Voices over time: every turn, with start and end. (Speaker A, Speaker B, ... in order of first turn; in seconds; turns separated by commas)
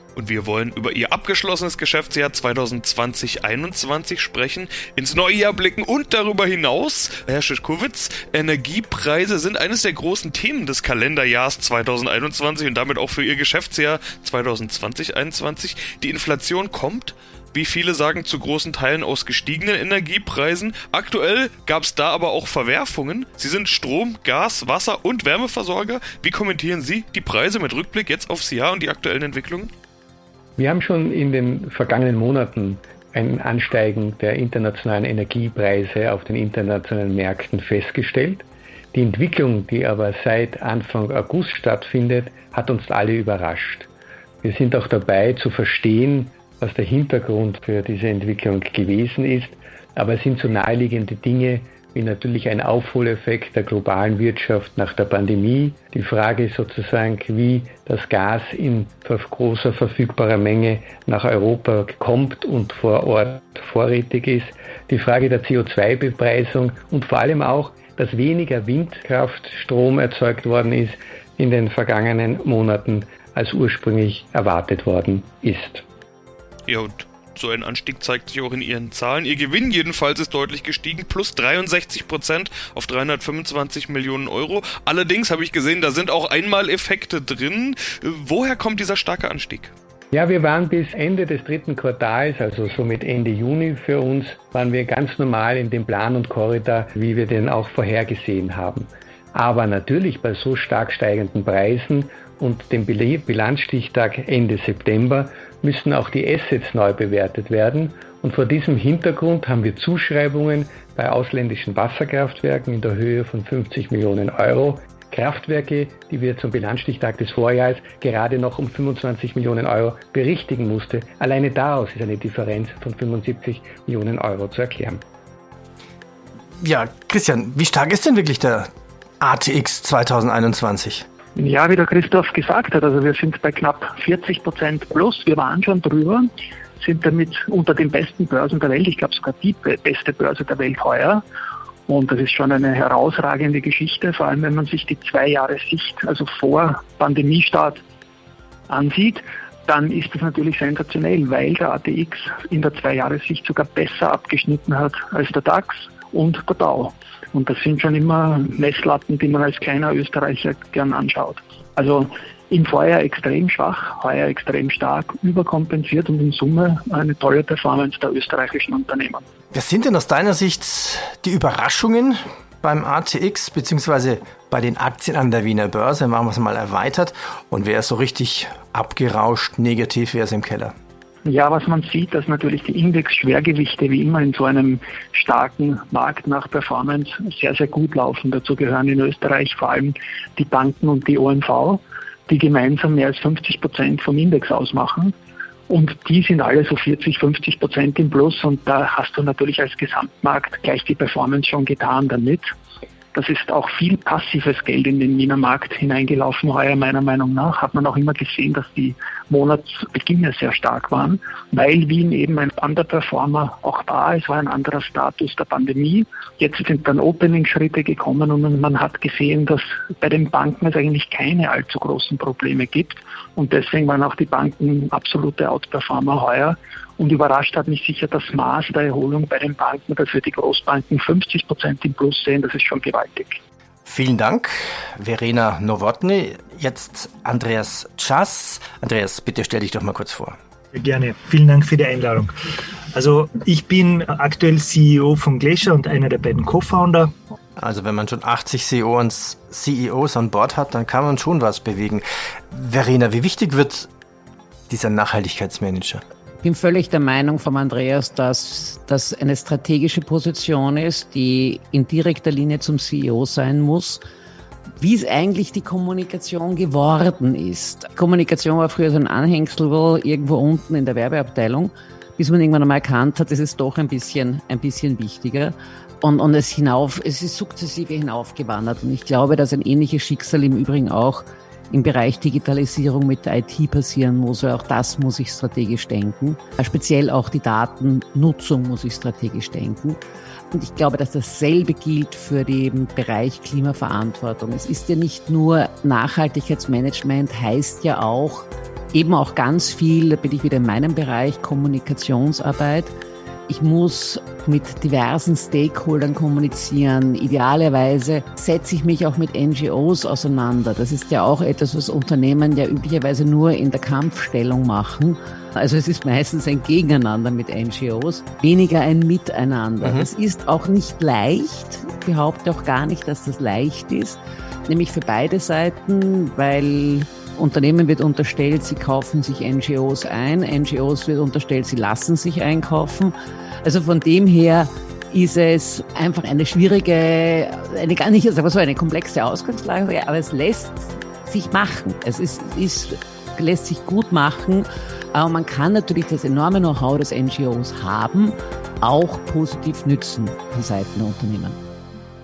Speaker A: 0.1-29.7, Speaker B: 30.6-43.9, Speaker B: 44.4-75.8, Speaker A: 76.7-89.7, Speaker B: 90.1-125.0, Speaker C: 126.6-128.7, Speaker C: 129.2-131.0, Speaker D: 131.4-141.2, Speaker D: 141.9-147.8, Speaker D: 148.7-169.2, Speaker C: 169.5-180.7, Speaker D: 181.2-195.1, Speaker D: 195.7-202.5, Speaker D: 203.1-233.4, Speaker C: 233.8-240.4, Speaker E: 240.7-242.3, Speaker E: 242.9-247.1, Speaker C: 247.6-253.9, Speaker C: 254.7-256.0, Speaker F: 256.4-264.0, Speaker F: 264.8-290.0, Speaker F: 290.5-302.9, Speaker F: 303.5-351.6, Speaker C: 319.8-320.1